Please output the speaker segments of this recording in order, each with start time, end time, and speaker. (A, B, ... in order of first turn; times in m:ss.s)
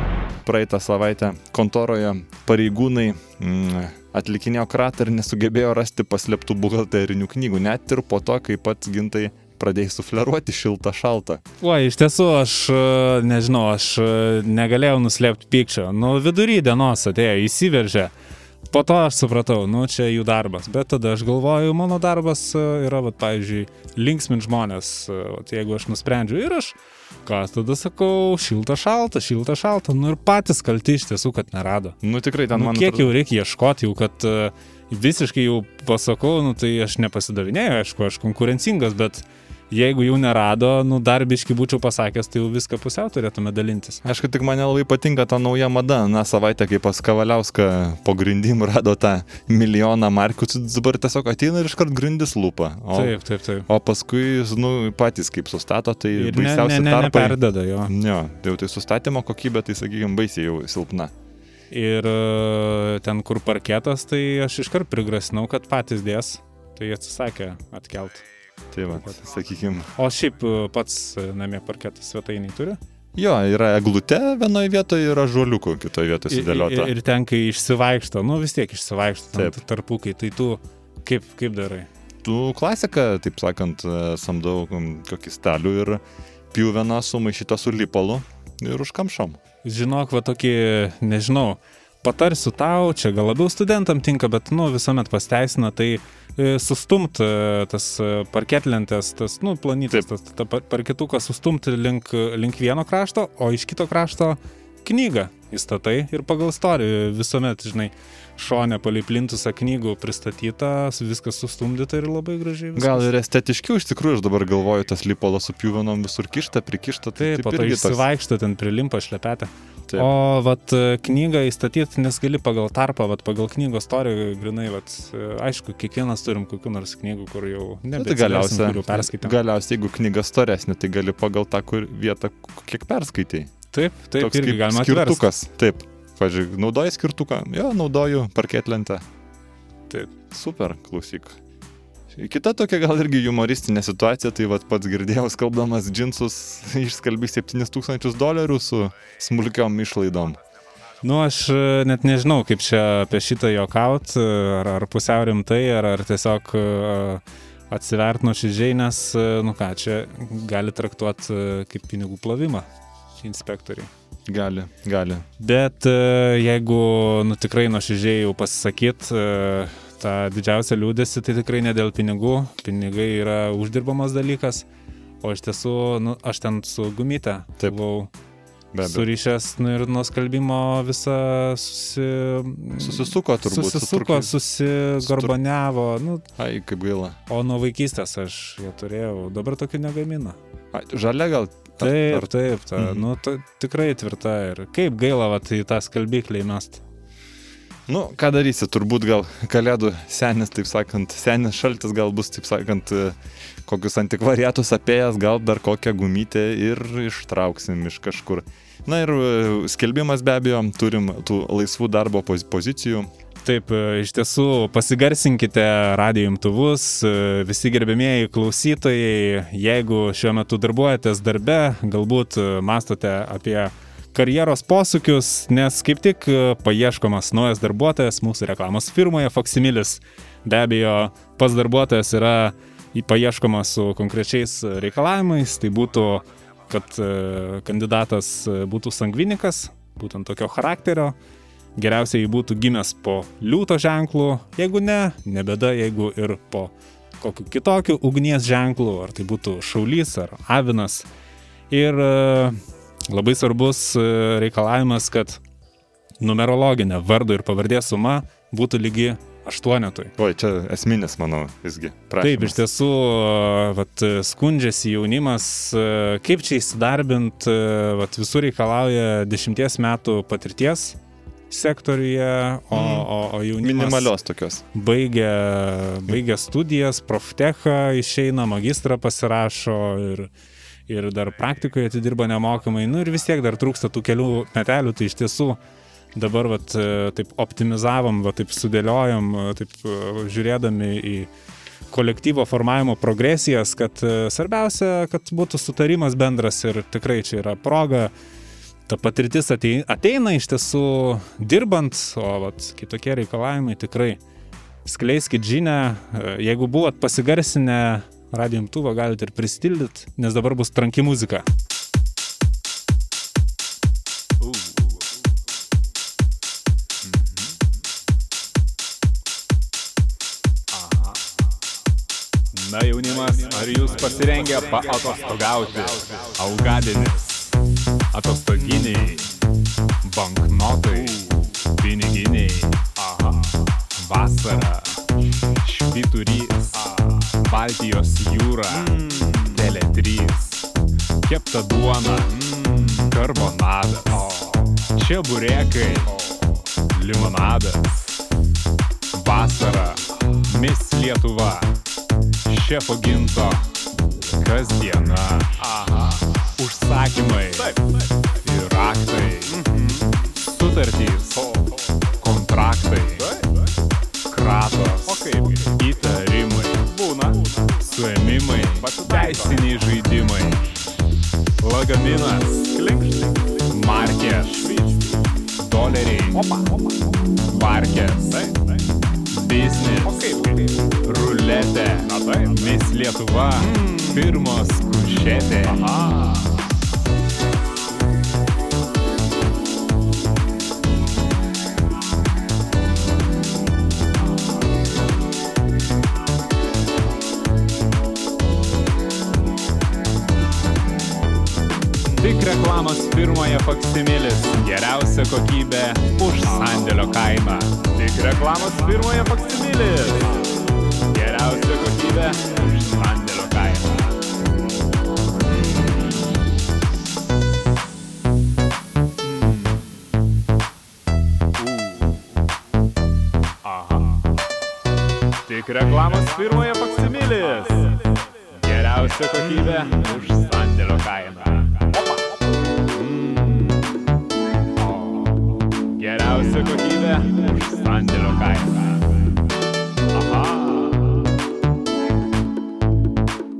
0:00.4-0:11.4 A
0:11.6-0:18.1 B
0:18.7-0:32.0 B
0:32.0-0:33.1 A
0:32.5-0:44.0 B
0:44.0-0:53.1 A
0:52.9-0:53.7 B
0:53.7-1:01.1 A
0:56.1-0:57.9 B
1:01.7-1:08.2 B
1:08.7-1:09.9 A
1:08.9-1:09.2 B
1:10.0-1:12.8 B
1:13.2-1:16.9 A
1:16.3-1:21.9 B
1:22.2-1:29.4 A
1:29.6-1:53.1 B
1:52.8-1:58.0 A
1:57.2-2:09.3 B
2:07.9-2:13.5 A
2:13.7-2:15.2 B
2:14.2-2:19.0 A
2:20.3-2:21.4 A
2:22.1-2:30.4 A
2:31.0-2:42.6 B
2:43.2-2:43.9 B
2:44.3-2:45.2 A
2:45.4-2:54.6 B
2:55.2-2:58.1 B
2:58.7-2:59.1 A
2:58.8-3:06.2 B
3:02.8-3:04.3 A
3:05.0-3:05.3 A
3:06.4-3:07.2 A
3:07.3-3:10.4 B
3:10.7-3:13.0 A
3:11.8-3:16.8 B
3:17.9-3:33.1 A
3:33.4-4:01.2 B
4:01.8-4:11.0 B
4:11.7-4:12.6 B
4:13.1-4:15.4 B
4:16.2-4:20.1 B
4:20.2-4:22.6 A
4:22.2-4:31.0 B
4:31.5-4:34.1 B
4:32.7-4:34.6 A
4:34.7-4:40.3 B
4:40.9-4:45.6 B
4:46.1-4:51.3 B
4:51.9-4:58.1 B
4:58.9-5:04.2 B
5:04.8-5:11.4 B
5:14.4-5:14.9 C
5:17.0-5:17.5 C
5:20.7-5:21.2 C
5:22.5-5:27.6 C
5:28.1-5:29.3 C
5:30.0-5:35.0 C
5:35.6-5:40.7 C
5:41.2-5:48.1 C
5:49.1-5:51.7 C
5:52.5-5:53.7 C
5:54.4-5:57.8 C
5:58.4-6:01.5 C
6:02.2-6:03.4 C
6:04.4-6:10.6 C
6:04.4-6:05.1 B
6:11.6-6:16.7 C
6:17.4-6:18.7 C
6:19.3-6:26.5 C
6:42.1-6:50.5 C
6:51.1-6:54.2 C
6:59.3-6:59.8 C
7:01.6-7:02.2 C
7:03.6-7:04.2 C
7:05.4-7:12.0 C
7:12.9-7:13.9 C
7:14.8-7:15.3 C
7:15.9-7:19.2 C
7:20.1-7:21.2 C